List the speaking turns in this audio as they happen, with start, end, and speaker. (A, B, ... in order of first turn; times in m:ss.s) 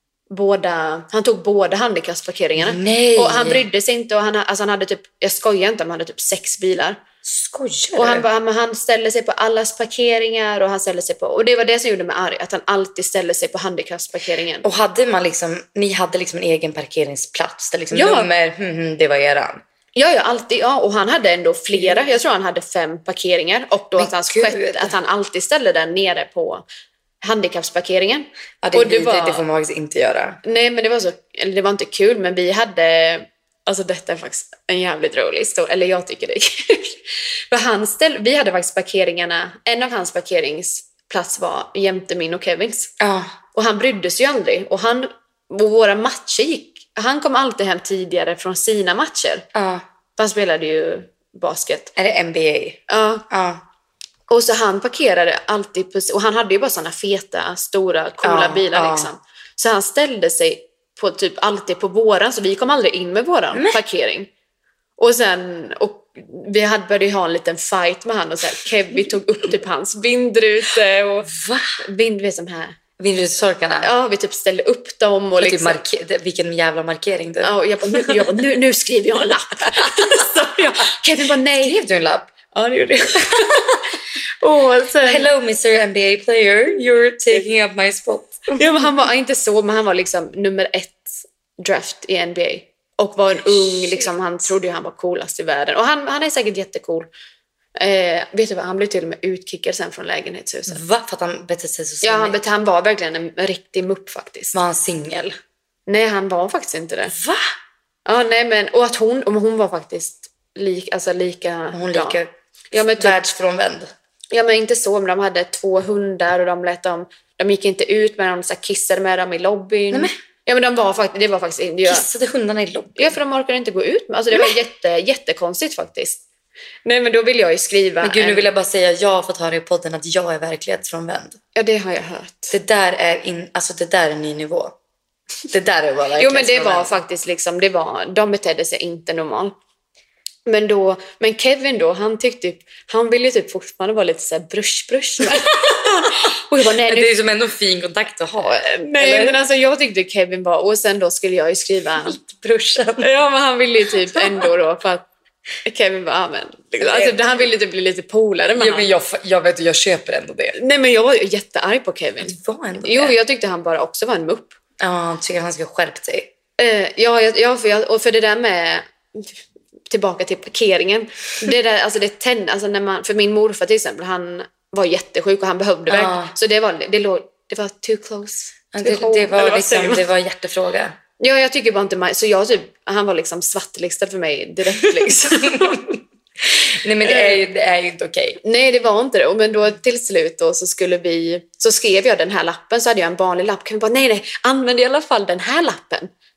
0:00.3-0:07.0 A
0:02.6-0:03.6 B
0:07.2-0:08.2 B
0:08.0-0:14.7 A
0:14.6-0:19.6 B
0:17.9-0:18.3 A
0:20.0-0:26.6 A
0:24.0-0:24.9 B
0:27.2-0:29.4 A
0:28.6-0:30.4 B
0:30.4-0:42.9 A
0:43.0-0:43.4 B
0:43.5-0:49.5 A
0:49.5-0:49.8 B
0:50.2-0:51.9 A
0:52.0-0:53.6 B
0:52.9-0:53.3 A
0:54.3-1:04.3 A
0:58.2-0:59.1 B
1:03.5-1:03.8 B
1:05.0-1:12.8 A
1:11.3-1:11.8 B
1:13.0-1:13.9 B
1:13.8-1:15.8 A
1:15.4-1:18.4 B
1:17.4-1:21.8 A
1:19.7-1:20.6 B
1:21.5-1:22.3 B
1:22.5-1:25.3 A
1:25.0-1:28.7 B
1:28.5-1:37.1 A
1:33.5-1:34.0 B
1:37.8-1:40.8 A
1:40.7-1:42.4 B
1:42.0-1:44.6 A
1:44.5-1:45.3 B
1:45.9-1:47.2 A
1:47.1-1:47.5 B
1:48.1-1:52.2 A
1:51.7-1:52.3 B
1:52.7-1:53.2 A
1:52.8-1:53.9 B
1:54.3-2:02.1 A
2:01.8-2:03.2 B
2:03.0-2:06.2 A
2:06.8-2:08.5 A
2:08.0-2:11.4 B
2:11.6-2:12.6 A
2:12.5-2:14.8 B
2:15.5-2:17.0 B
2:16.2-2:19.5 A
2:20.5-2:27.1 A
2:25.3-2:25.7 B
2:26.5-2:29.4 B
2:28.6-2:32.2 A
2:32.0-2:33.1 B
2:33.0-2:35.1 A
2:34.2-2:34.5 B
2:35.6-2:38.9 A
2:36.8-2:37.2 B
2:38.6-2:40.6 B
2:40.6-2:44.6 A
2:42.2-2:43.2 B
2:44.8-2:46.3 B
2:46.6-2:49.3 A
2:49.9-3:00.0 A
2:55.9-2:56.3 B
2:58.7-3:01.0 B
3:01.2-3:05.8 A
3:04.8-3:08.4 B
3:07.0-3:07.4 A
3:08.4-3:16.1 A